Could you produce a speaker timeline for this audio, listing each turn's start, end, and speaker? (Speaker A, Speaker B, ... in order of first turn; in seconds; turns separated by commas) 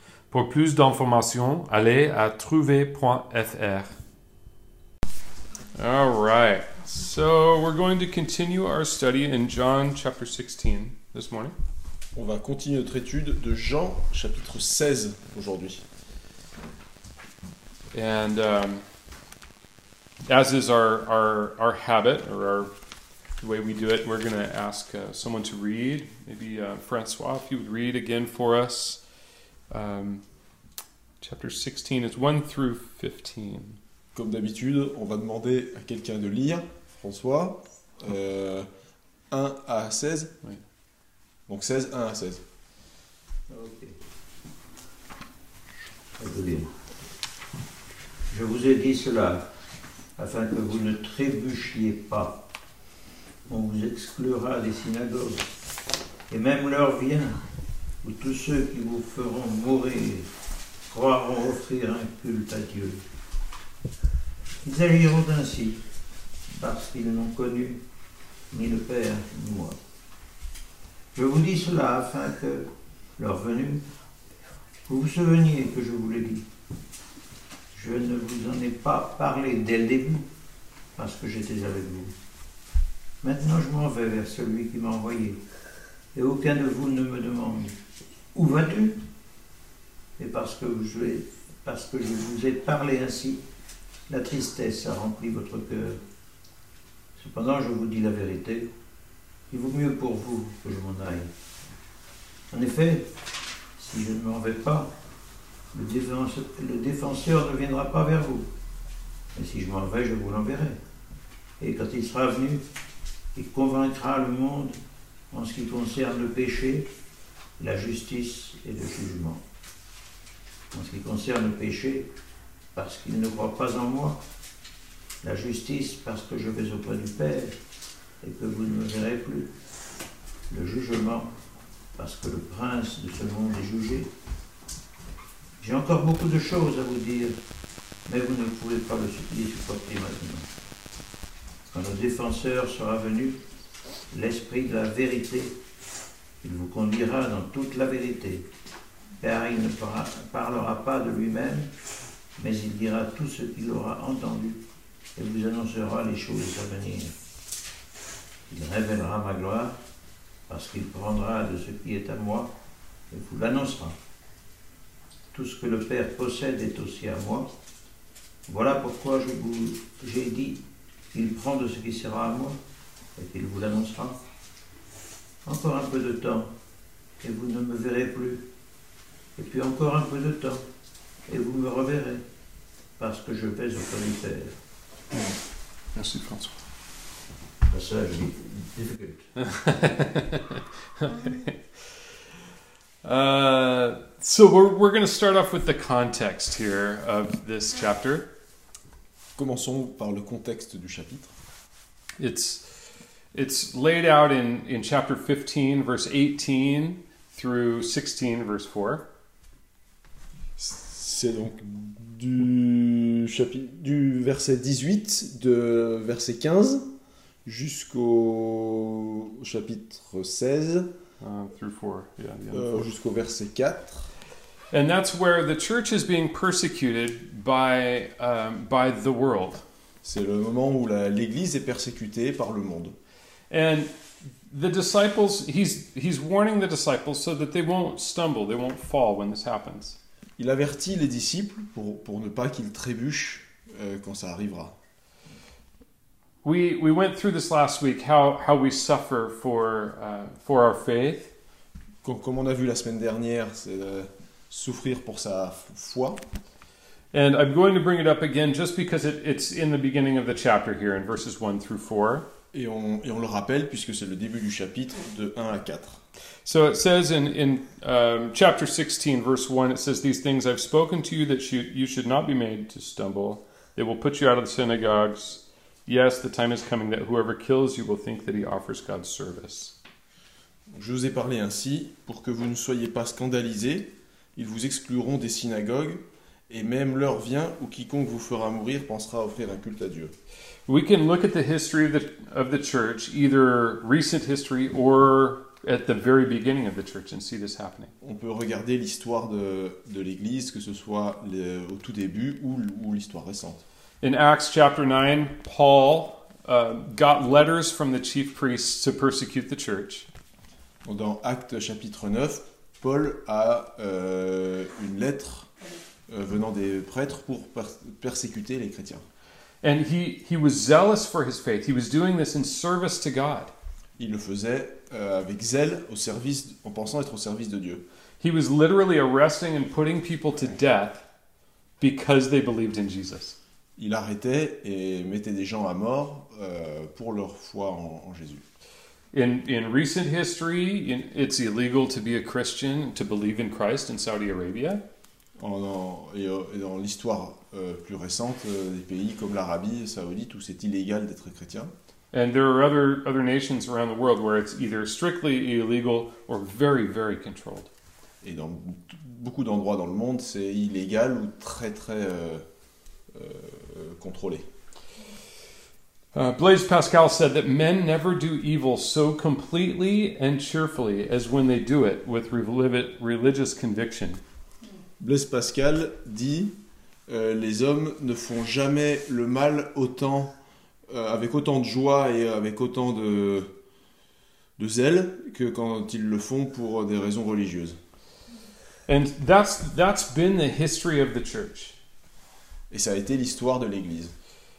Speaker A: 0.3-4.0, Speaker A: 5.7-11.6, Speaker B: 12.1-15.8, Speaker A: 17.9-18.8, Speaker A: 20.3-22.7, Speaker A: 23.4-29.0, Speaker A: 29.7-30.2, Speaker A: 31.2-33.8, Speaker B: 34.1-38.7, Speaker B: 39.3-40.3, Speaker B: 41.5-42.4, Speaker C: 43.5-44.0, Speaker C: 46.2-46.7, Speaker C: 48.3-49.5, Speaker C: 50.2-52.4, Speaker C: 53.5-55.5, Speaker C: 56.3-57.4, Speaker C: 58.0-60.3, Speaker C: 60.9-63.0, Speaker C: 64.6-65.8, Speaker C: 66.5-67.8, Speaker C: 68.5-69.8, Speaker C: 71.2-73.8, Speaker C: 74.9-76.5, Speaker C: 77.7-80.3, Speaker C: 81.0-82.1, Speaker C: 83.2-85.4, Speaker C: 86.1-87.8, Speaker C: 88.3-89.0, Speaker C: 90.2-93.4, Speaker C: 94.1-96.0, Speaker C: 97.2-98.7, Speaker C: 99.5-101.3, Speaker C: 102.5-103.1, Speaker C: 103.8-104.9, Speaker C: 105.7-108.5, Speaker C: 109.3-110.8, Speaker C: 111.6-112.6, Speaker C: 113.3-114.8, Speaker C: 115.3-116.9, Speaker C: 117.6-119.4, Speaker C: 120.7-122.1, Speaker C: 122.8-124.2, Speaker C: 125.2-127.6, Speaker C: 128.2-129.5, Speaker C: 130.5-131.3, Speaker C: 132.0-134.1, Speaker C: 135.6-137.3, Speaker C: 138.1-140.5, Speaker C: 141.7-143.4, Speaker C: 144.1-145.6, Speaker C: 146.4-148.5, Speaker C: 149.2-151.7, Speaker C: 152.4-154.6, Speaker C: 155.2-157.1, Speaker C: 158.5-159.8, Speaker C: 160.5-162.5, Speaker C: 163.1-164.0, Speaker C: 165.3-167.5, Speaker C: 168.5-172.6, Speaker C: 173.2-174.2, Speaker C: 175.4-176.5, Speaker C: 177.2-178.4, Speaker C: 179.4-180.6, Speaker C: 181.3-182.2, Speaker C: 183.0-184.6, Speaker A: 185.9-186.6, Speaker C: 187.7-189.3, Speaker A: 189.4-191.6, Speaker A: 193.0-198.3, Speaker B: 199.4-201.3, Speaker A: 202.2-202.7, Speaker A: 203.3-209.1, Speaker B: 210.6-216.9, Speaker B: 217.4-220.9, Speaker A: 221.2-222.8, Speaker B: 222.5-224.1, Speaker A: 224.7-229.6, Speaker B: 230.0-233.0, Speaker A: 233.5-233.9, Speaker A: 234.5-240.0, Speaker B: 240.4-244.8, Speaker A: 246.4-251.3, Speaker B: 252.0-256.2, Speaker A: 257.1-262.3, Speaker B: 262.5-266.0, Speaker A: 266.4-279.8, Speaker B: 280.7-290.1, Speaker A: 290.7-297.9, Speaker B: 298.0-303.6, Speaker A: 304.0-310.1, Speaker B: 310.8-315.5, Speaker B: 316.1-319.0, Speaker A: 319.6-323.5, Speaker B: 324.0-327.8, Speaker A: 328.2-331.1, Speaker A: 331.8-333.4, Speaker B: 333.8-338.4, Speaker A: 339.1-344.8, Speaker B: 345.4-351.7, Speaker A: 352.1-357.7, Speaker B: 358.2-362.4, Speaker B: 363.1-364.4, Speaker A: 366.1-374.2, Speaker B: 375.0-376.6, Speaker B: 377.1-380.3, Speaker B: 380.9-383.5, Speaker B: 384.6-387.8, Speaker A: 388.9-391.8, Speaker B: 392.7-394.1